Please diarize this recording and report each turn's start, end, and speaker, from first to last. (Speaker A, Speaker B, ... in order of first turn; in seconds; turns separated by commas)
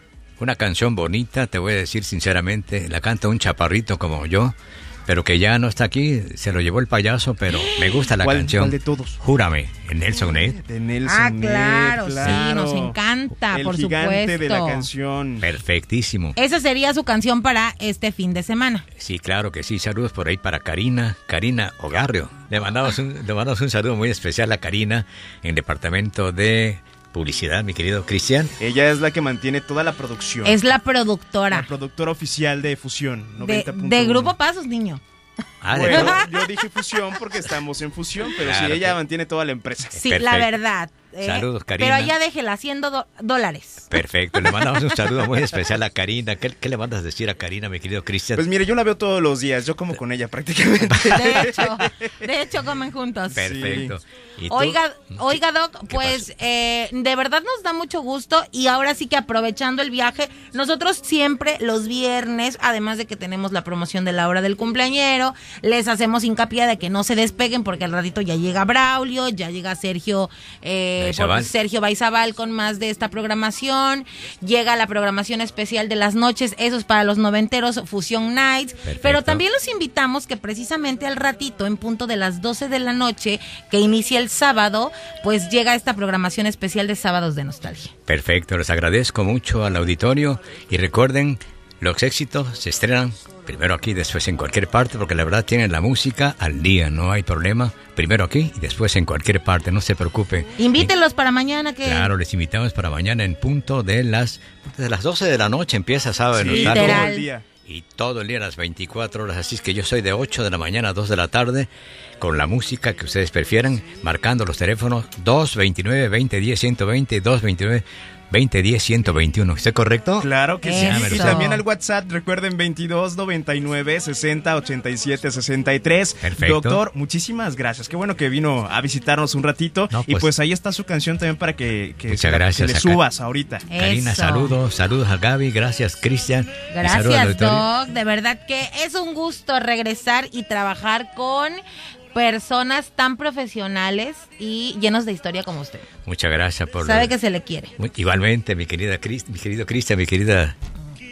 Speaker A: 0.4-4.5, Speaker A: 5.1-10.6, Speaker B: 7.5-8.1, Speaker C: 8.2-9.2, Speaker C: 10.3-13.0, Speaker B: 11.0-14.9, Speaker C: 13.5-15.4, Speaker A: 15.4-16.4, Speaker B: 16.4-18.8, Speaker A: 18.9-28.5, Speaker C: 28.6-30.6, Speaker B: 30.4-31.7, Speaker C: 31.5-34.3, Speaker B: 33.4-35.0, Speaker A: 35.6-36.2, Speaker C: 35.7-40.0, Speaker B: 35.8-36.6, Speaker A: 38.4-39.0, Speaker A: 39.9-40.5, Speaker B: 40.0-45.2, Speaker A: 41.2-42.1, Speaker A: 43.9-48.5, Speaker C: 48.3-52.2, Speaker B: 51.1-53.8, Speaker A: 53.3-56.2, Speaker C: 53.4-54.0, Speaker B: 54.5-87.9, Speaker A: 71.0-71.5, Speaker A: 78.8-79.4, Speaker A: 88.1-100.9, Speaker B: 100.6-102.1, Speaker A: 101.8-107.1, Speaker C: 106.3-107.4, Speaker B: 106.5-107.3, Speaker A: 107.7-121.4, Speaker C: 120.2-133.7, Speaker B: 120.6-121.6, Speaker A: 126.2-126.8, Speaker A: 129.9-130.3, Speaker A: 132.1-133.0, Speaker B: 133.7-134.6, Speaker A: 133.7-137.7, Speaker B: 136.7-141.6, Speaker B: 142.1-145.8, Speaker A: 146.0-147.1, Speaker B: 146.8-147.7, Speaker A: 147.8-150.5